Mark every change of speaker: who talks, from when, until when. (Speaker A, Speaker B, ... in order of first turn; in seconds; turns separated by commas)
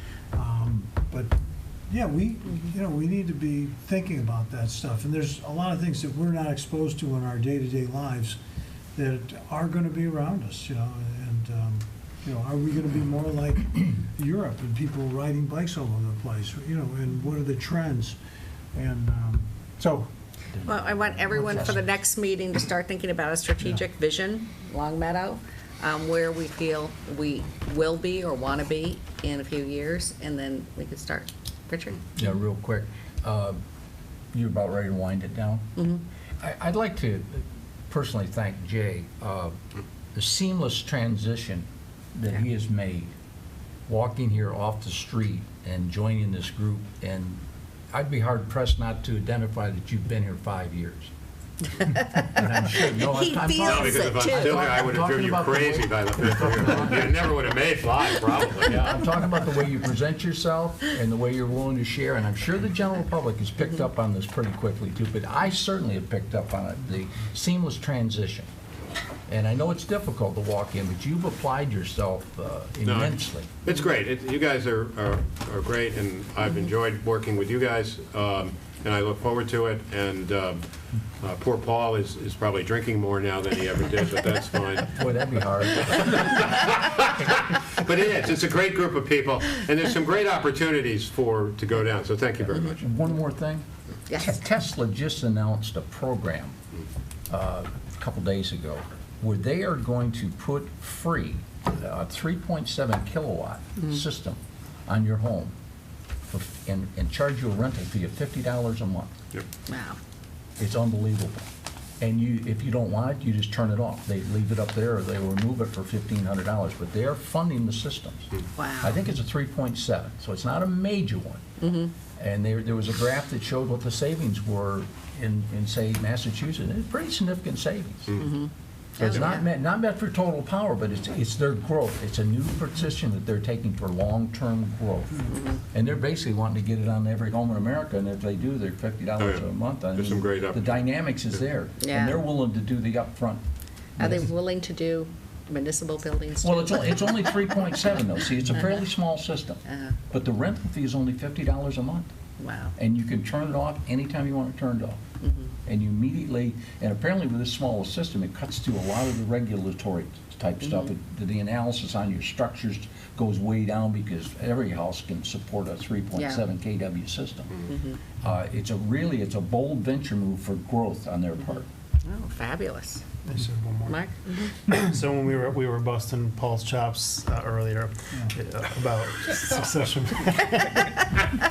Speaker A: 0.3-1.3, Speaker A: 1.9-8.4, Speaker A: 8.9-18.2, Speaker A: 18.7-20.1, Speaker B: 20.5-21.8, Speaker C: 20.6-32.2, Speaker B: 32.1-33.6, Speaker B: 34.3-35.7, Speaker C: 35.8-36.0, Speaker B: 36.4-39.5, Speaker B: 40.1-43.1, Speaker B: 43.9-51.1, Speaker B: 51.9-57.1, Speaker C: 51.9-52.3, Speaker C: 53.0-54.9, Speaker D: 53.6-59.0, Speaker B: 58.8-68.5, Speaker B: 69.3-73.6, Speaker D: 72.8-80.6, Speaker D: 81.2-85.0, Speaker B: 84.9-86.4, Speaker D: 85.7-92.8, Speaker B: 92.8-96.5, Speaker B: 97.3-105.5, Speaker B: 106.2-109.1, Speaker C: 109.7-110.0, Speaker B: 110.6-111.5, Speaker B: 112.0-121.4, Speaker C: 118.6-119.0, Speaker C: 121.6-121.9, Speaker B: 122.2-128.2, Speaker C: 128.2-129.4, Speaker B: 129.0-143.4, Speaker C: 135.3-135.6, Speaker D: 139.2-140.8, Speaker C: 141.8-142.2, Speaker C: 144.0-147.4, Speaker B: 144.0-144.3, Speaker B: 146.4-152.1, Speaker C: 149.7-149.9, Speaker C: 152.4-152.7, Speaker B: 152.8-155.0, Speaker C: 155.2-155.5, Speaker B: 155.7-171.6, Speaker C: 166.2-166.4, Speaker C: 167.7-168.0, Speaker C: 172.0-173.1, Speaker E: 173.2-181.1, Speaker C: 173.8-174.5